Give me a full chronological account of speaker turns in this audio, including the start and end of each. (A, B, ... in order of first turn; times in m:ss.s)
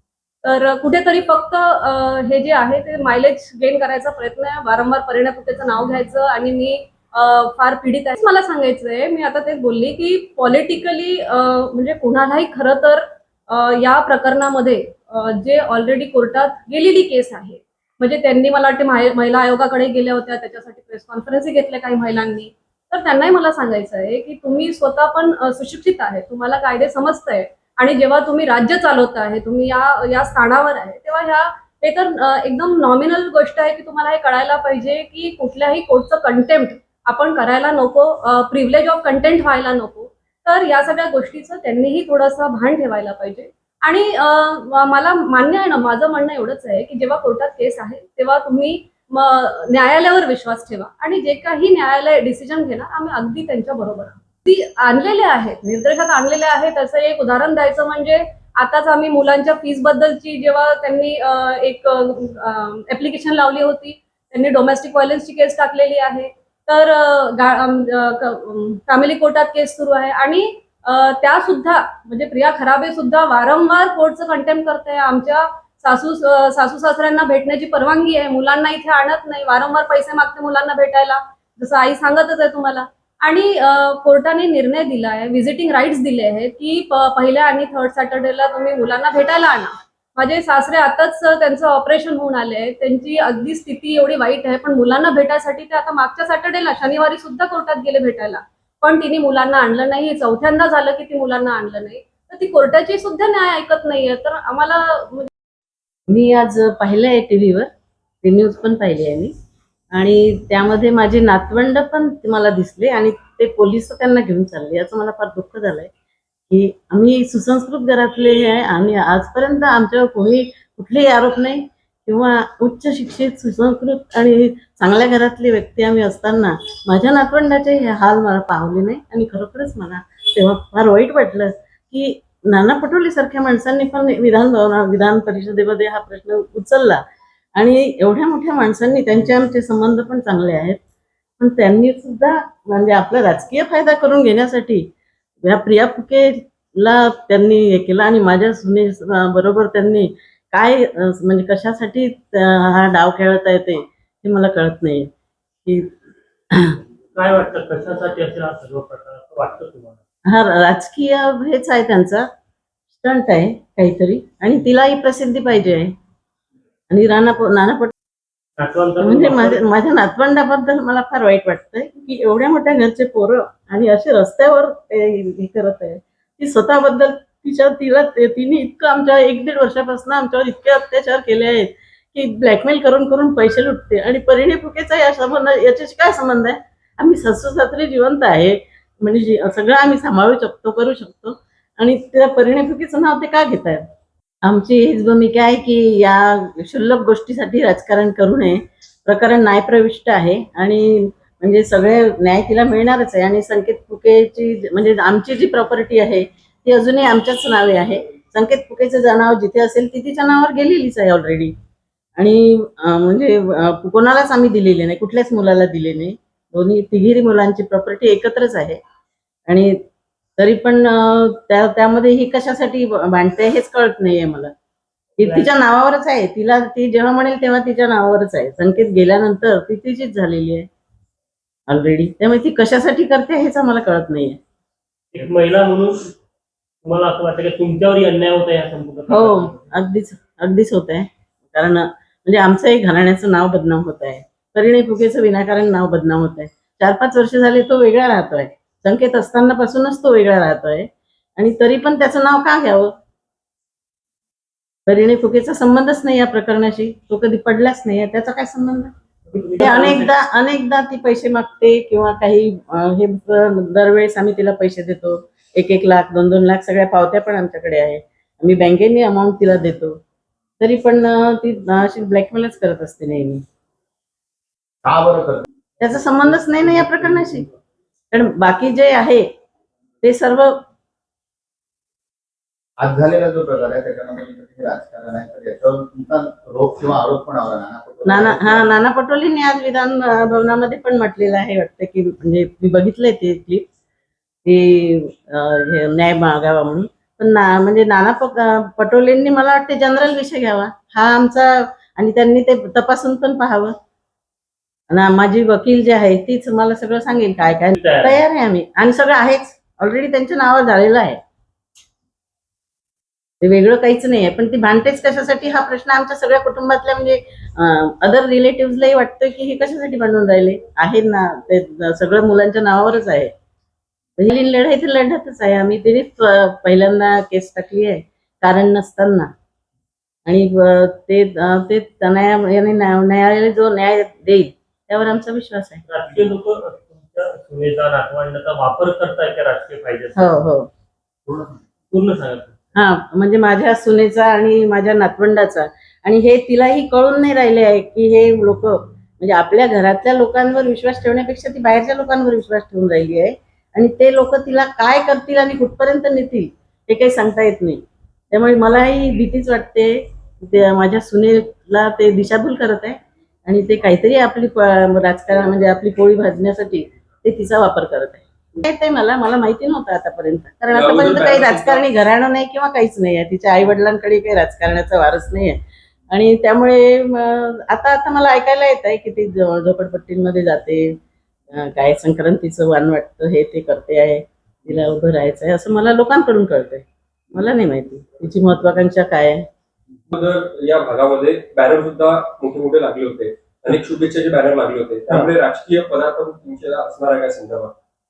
0:00.4-1:45.3 A
1:46.1-1:47.7 B
1:48.2-1:49.3 B
1:49.9-1:55.9 B
1:56.5-2:17.0 B
2:17.6-2:20.8 B
2:21.4-2:24.9 B
2:25.4-2:35.1 B
2:35.6-2:35.9 B
2:36.5-2:36.8 B
2:37.1-2:40.0 C
2:40.3-2:42.3 B
2:42.9-2:45.9 B
2:46.9-2:47.9 B
2:48.6-2:49.6 C
2:49.0-3:13.8 B
3:14.4-3:31.5 B
3:32.2-3:38.8 B
3:39.5-3:39.8 B
3:40.4-3:44.5 B
3:45.2-3:50.7 B
3:45.2-3:45.5 C
3:51.7-3:54.4 B
3:55.1-3:56.1 C
3:56.8-3:59.7 C
3:59.1-4:12.9 B
4:14.9-4:18.9 B
4:19.3-4:20.1 C
4:19.6-4:30.0 B
4:30.6-4:33.4 B
4:34.8-4:35.5 D
4:35.8-4:37.5 B
4:38.1-4:39.3 B
4:40.0-4:40.6 B
4:42.8-4:48.8 D
4:48.1-4:53.7 B
4:54.4-5:03.7 B
5:04.9-5:11.2 B
5:07.8-5:08.2 C
5:13.4-5:23.3 B
5:24.2-5:29.3 B
5:30.3-5:35.8 B
5:35.9-5:40.4 C
5:40.2-5:40.7 B
5:41.3-5:42.6 C
5:42.8-5:57.8 B
5:58.3-6:21.0 B
6:10.7-6:11.8 E
6:21.5-6:29.5 B
6:30.1-6:37.7 E